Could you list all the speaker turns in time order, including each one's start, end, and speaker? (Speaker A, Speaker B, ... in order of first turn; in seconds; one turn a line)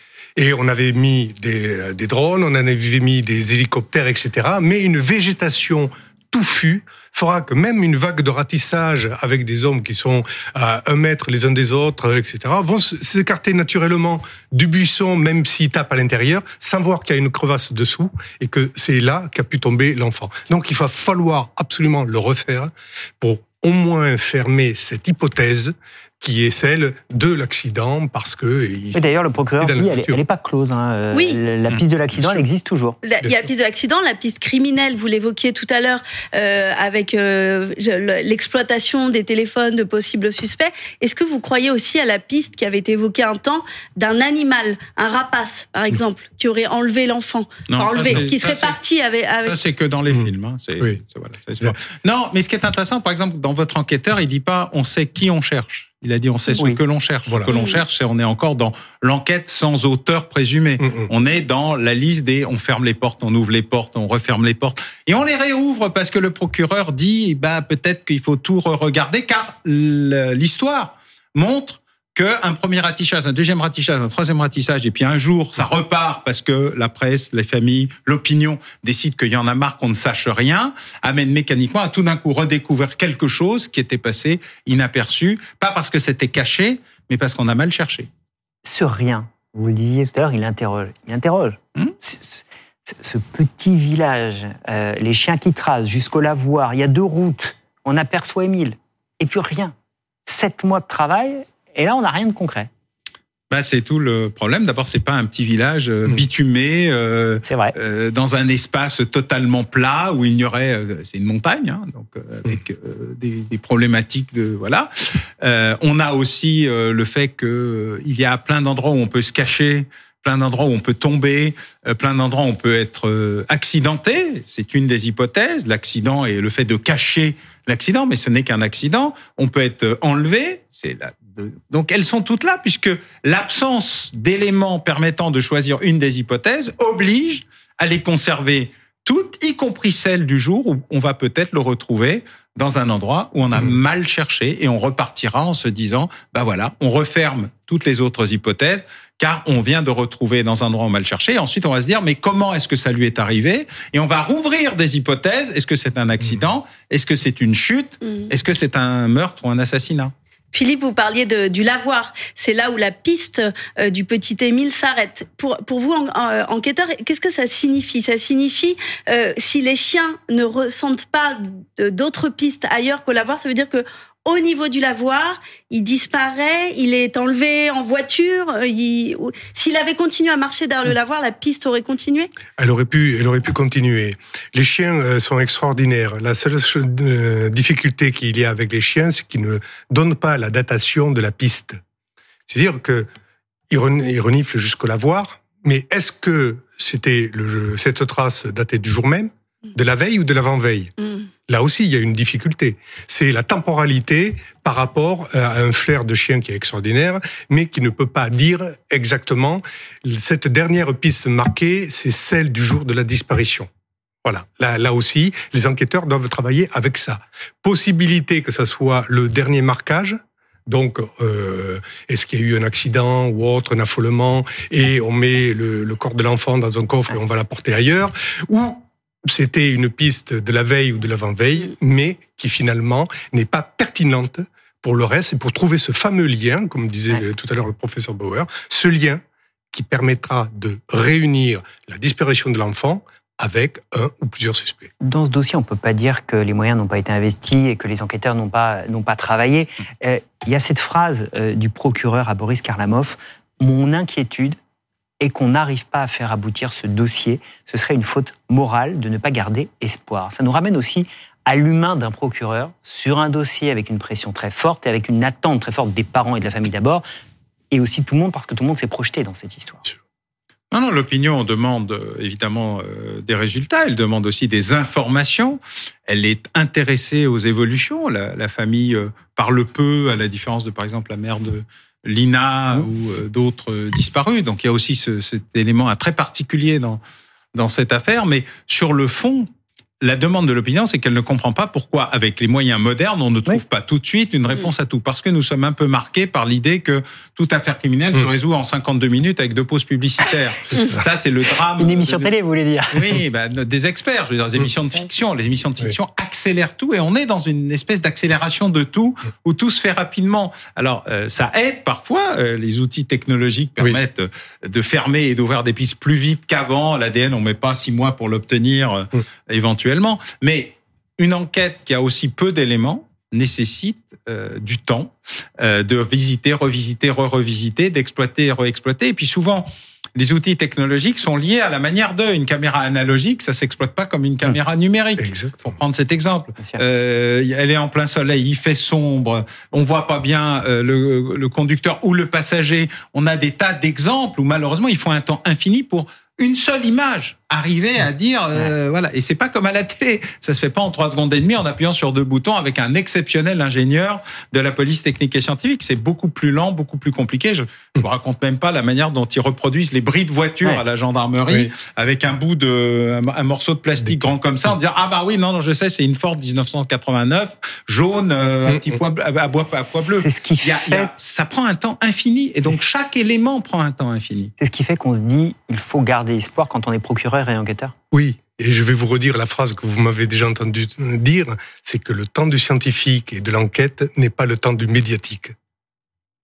Speaker A: 0.4-29.1
Speaker B: 28.9-33.0
Speaker A: 29.6-30.2
Speaker C: 31.1-31.4
Speaker A: 32.1-32.4
Speaker C: 33.0-49.5
Speaker A: 33.2-33.5
Speaker D: 47.7-48.8
Speaker A: 48.0-48.3
Speaker D: 49.4-88.1
Speaker A: 50.1-51.0
Speaker A: 57.3-57.5
Speaker A: 60.8-61.1
Speaker B: 88.7-99.7
Speaker B: 100.3-102.7
Speaker D: 103.5-114.9
Speaker B: 107.5-107.8
Speaker D: 115.4-160.1
Speaker C: 160.5-182.3
Speaker A: 182.6-191.8
Speaker A: 192.5-193.1
Speaker A: 193.7-200.9
Speaker A: 201.5-213.7
Speaker A: 214.2-239.2
Speaker A: 239.7-244.9
Speaker B: 245.0-254.6
Speaker B: 255.2-267.0
Speaker B: 267.7-269.9
Speaker D: 270.7-287.0
Speaker D: 287.6-289.5
Speaker D: 290.0-302.3
Speaker A: 300.7-301.0
Speaker B: 301.7-303.2
Speaker D: 302.9-374.5
Speaker A: 335.2-335.8
Speaker A: 361.5-361.7
Speaker A: 364.1-364.3
Speaker A: 368.7-369.0
Speaker B: 369.8-371.1
Speaker B: 374.6-377.9
Speaker A: 378.1-385.5